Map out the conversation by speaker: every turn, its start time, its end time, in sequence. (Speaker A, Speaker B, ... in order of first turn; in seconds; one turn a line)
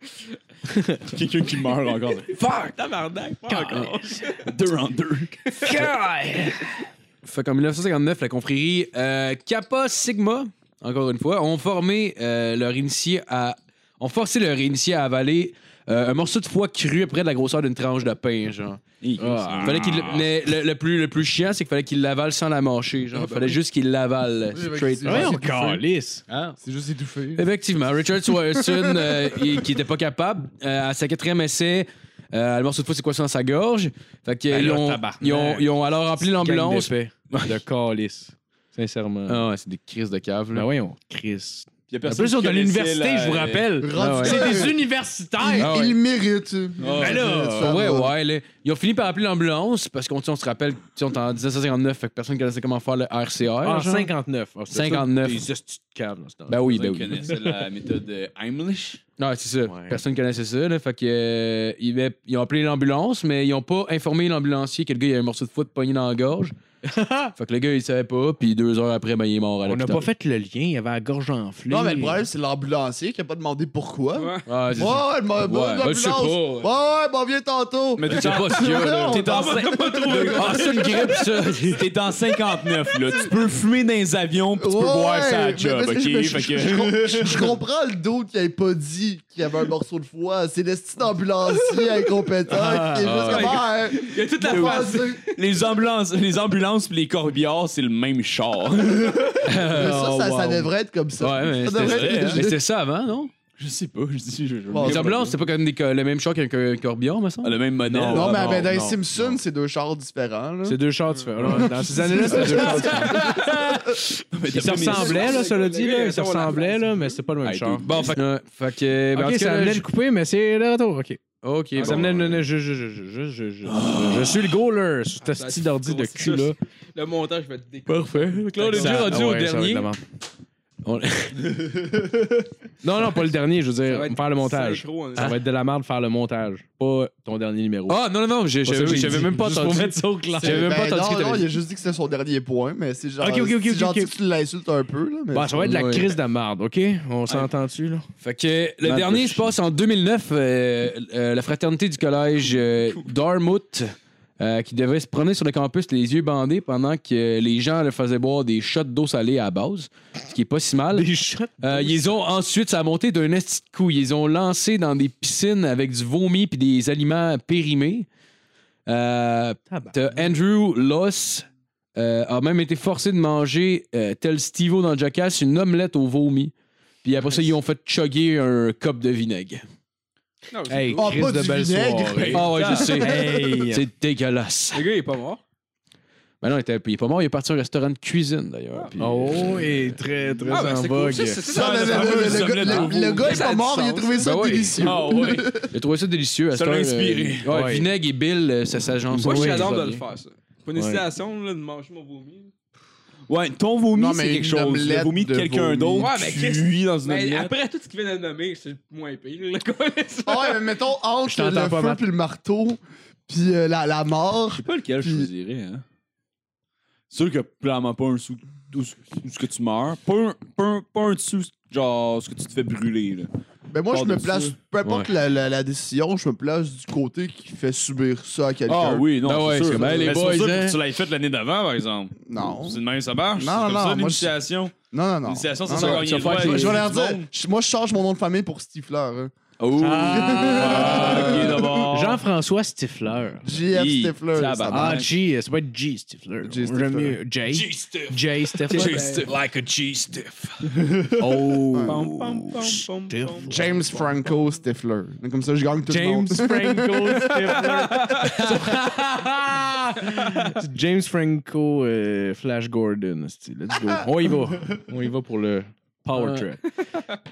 Speaker A: 0.7-1.0
Speaker B: 1.1-2.3
Speaker C: 2.3-4.5
Speaker A: 3.5-4.2
Speaker B: 4.4-5.4
Speaker C: 5.5-5.8
Speaker A: 5.6-6.6
Speaker D: 7.2-18.8
Speaker B: 19.0-20.3
Speaker A: 19.2-19.8
Speaker D: 19.6-25.4
Speaker E: 24.5-25.8
Speaker A: 25.0-26.2
Speaker D: 26.3-26.5
Speaker E: 26.6-27.4
Speaker D: 27.4-37.5
Speaker E: 28.4-29.6
Speaker A: 34.5-39.4
Speaker D: 39.3-40.7
Speaker A: 40.5-45.7
Speaker B: 41.9-43.8
Speaker E: 43.8-44.7
Speaker D: 43.9-44.7
Speaker E: 45.4-48.1
Speaker D: 45.6-46.0
Speaker B: 46.8-47.2
Speaker A: 47.0-47.8
Speaker D: 47.2-54.1
Speaker A: 53.6-56.7
Speaker D: 54.7-55.5
Speaker D: 56.5-57.3
Speaker B: 56.6-59.0
Speaker D: 59.2-66.5
Speaker A: 59.6-60.0
Speaker A: 66.8-67.3
Speaker D: 67.3-70.0
Speaker A: 69.7-72.2
Speaker E: 71.7-80.3
Speaker C: 74.1-74.5
Speaker D: 74.5-76.7
Speaker B: 78.0-80.9
Speaker D: 78.1-79.3
Speaker C: 79.2-81.3
Speaker D: 80.3-81.9
Speaker B: 81.6-87.5
Speaker E: 82.9-83.3
Speaker E: 84.6-95.2
Speaker D: 92.6-93.6
Speaker A: 92.6-93.0
Speaker C: 93.1-95.3
Speaker B: 94.4-99.7
Speaker D: 99.4-103.3
Speaker E: 99.7-102.6
Speaker B: 101.7-102.4
Speaker B: 103.6-105.4
Speaker E: 104.7-105.1
Speaker D: 104.8-107.5
Speaker B: 107.4-108.7
Speaker A: 107.8-109.3
Speaker E: 108.0-110.8
Speaker A: 110.6-117.9
Speaker E: 111.4-114.0
Speaker D: 113.1-113.5
Speaker B: 114.3-115.5
Speaker C: 114.7-117.2
Speaker B: 117.4-118.2
Speaker D: 117.8-119.8
Speaker A: 119.1-121.2
Speaker D: 121.4-122.4
Speaker A: 121.8-126.5
Speaker C: 121.8-122.1
Speaker B: 123.7-124.5
Speaker C: 125.2-129.2
Speaker A: 127.9-130.0
Speaker D: 128.5-129.9
Speaker D: 130.8-131.7
Speaker A: 132.8-138.0
Speaker C: 133.9-135.4
Speaker D: 137.9-141.5
Speaker A: 138.6-140.7
Speaker E: 140.4-145.7
Speaker A: 143.2-144.1
Speaker A: 145.3-148.1
Speaker D: 145.6-146.1
Speaker D: 148.2-161.1
Speaker B: 148.9-149.5
Speaker A: 160.9-162.1
Speaker D: 161.6-168.1
Speaker D: 168.9-176.5
Speaker A: 169.7-170.2
Speaker D: 177.0-179.6
Speaker C: 180.5-181.3
Speaker A: 180.7-183.8
Speaker E: 180.9-182.4
Speaker D: 181.0-184.8
Speaker B: 182.2-183.1
Speaker C: 183.0-183.6
Speaker C: 184.7-185.4
Speaker D: 186.4-190.0
Speaker A: 189.0-191.5
Speaker C: 190.5-194.2
Speaker E: 191.5-195.7
Speaker B: 191.5-193.5
Speaker D: 194.2-194.8
Speaker B: 194.8-195.5
Speaker D: 195.7-200.0
Speaker B: 196.5-197.5
Speaker A: 197.4-197.9
Speaker A: 199.1-199.7
Speaker C: 199.2-202.5
Speaker A: 200.8-201.0
Speaker B: 203.3-207.5
Speaker E: 203.9-206.1
Speaker C: 206.0-210.7
Speaker E: 210.2-215.3
Speaker A: 211.2-212.0
Speaker B: 214.5-215.8
Speaker B: 217.1-223.3
Speaker E: 223.7-229.1
Speaker B: 223.9-224.5
Speaker B: 228.7-237.3
Speaker D: 229.2-230.8
Speaker E: 232.2-232.8
Speaker E: 233.3-234.3
Speaker E: 234.9-239.3
Speaker D: 235.8-236.5
Speaker A: 235.8-236.8
Speaker B: 239.6-242.2
Speaker A: 239.8-243.5
Speaker E: 240.0-241.7
Speaker D: 240.5-241.6
Speaker E: 243.4-245.1
Speaker B: 243.7-245.2
Speaker A: 244.7-249.1
Speaker E: 246.4-247.2
Speaker D: 247.5-250.7
Speaker B: 248.7-249.3
Speaker C: 248.9-249.2
Speaker A: 251.2-254.1
Speaker E: 251.7-252.0
Speaker B: 251.8-253.5
Speaker E: 253.5-257.5
Speaker A: 255.9-258.9
Speaker C: 257.7-258.4
Speaker D: 258.0-259.9
Speaker A: 259.9-266.6
Speaker D: 266.1-266.4